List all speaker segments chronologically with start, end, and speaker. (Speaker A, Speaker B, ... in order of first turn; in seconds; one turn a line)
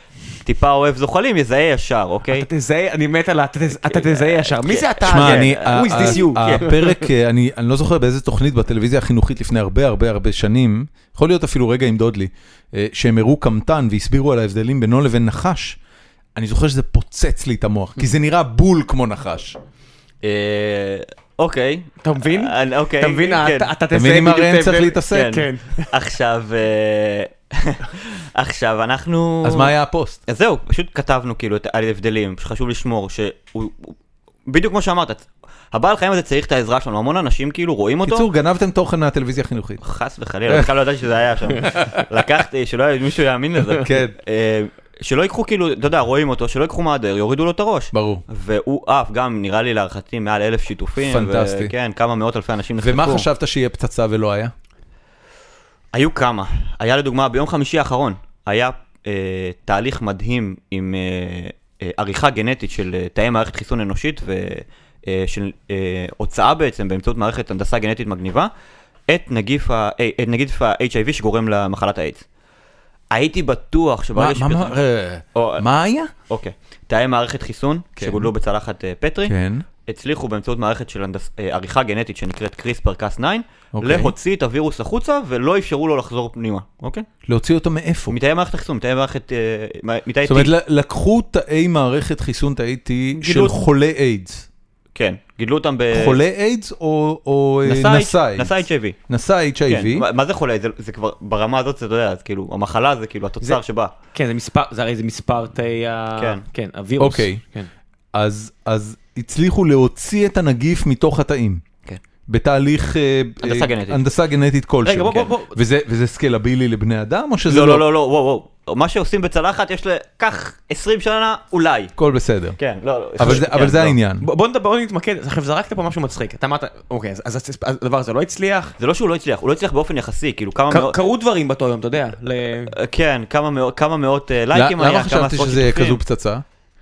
Speaker A: 0.4-2.5
Speaker B: 2.3-7.0
Speaker A: 3.9-6.9
Speaker C: 5.0-15.8
Speaker C: 16.3-19.6
Speaker A: 20.2-23.7
Speaker B: 22.0-25.9
Speaker C: 23.9-25.4
Speaker A: 25.1-29.7
Speaker C: 29.4-30.2
Speaker A: 30.3-33.9
Speaker A: 34.5-38.3
Speaker C: 38.0-39.8
Speaker A: 39.8-53.3
Speaker C: 43.7-44.1
Speaker C: 47.9-48.2
Speaker C: 51.0-51.7
Speaker C: 52.8-54.5
Speaker A: 55.9-68.5
Speaker A: 69.1-72.2
Speaker A: 73.1-74.8
Speaker C: 74.1-76.1
Speaker A: 75.3-75.7
Speaker A: 76.3-79.3
Speaker C: 78.0-78.3
Speaker C: 79.2-79.7
Speaker A: 79.8-87.1
Speaker C: 83.7-84.1
Speaker C: 87.3-88.2
Speaker A: 88.1-90.5
Speaker C: 90.2-94.5
Speaker A: 93.1-93.5
Speaker A: 94.9-96.2
Speaker C: 95.9-100.0
Speaker A: 97.6-99.0
Speaker A: 99.7-103.9
Speaker B: 104.1-107.7
Speaker A: 106.2-106.4
Speaker C: 107.0-107.4
Speaker C: 108.1-111.6
Speaker C: 112.3-117.8
Speaker A: 113.4-114.0
Speaker B: 114.8-115.6
Speaker A: 117.5-121.9
Speaker C: 122.0-122.6
Speaker A: 122.6-124.0
Speaker C: 123.2-124.2
Speaker B: 124.2-128.8
Speaker A: 128.8-131.0
Speaker B: 130.7-132.7
Speaker A: 132.7-136.0
Speaker C: 134.5-136.4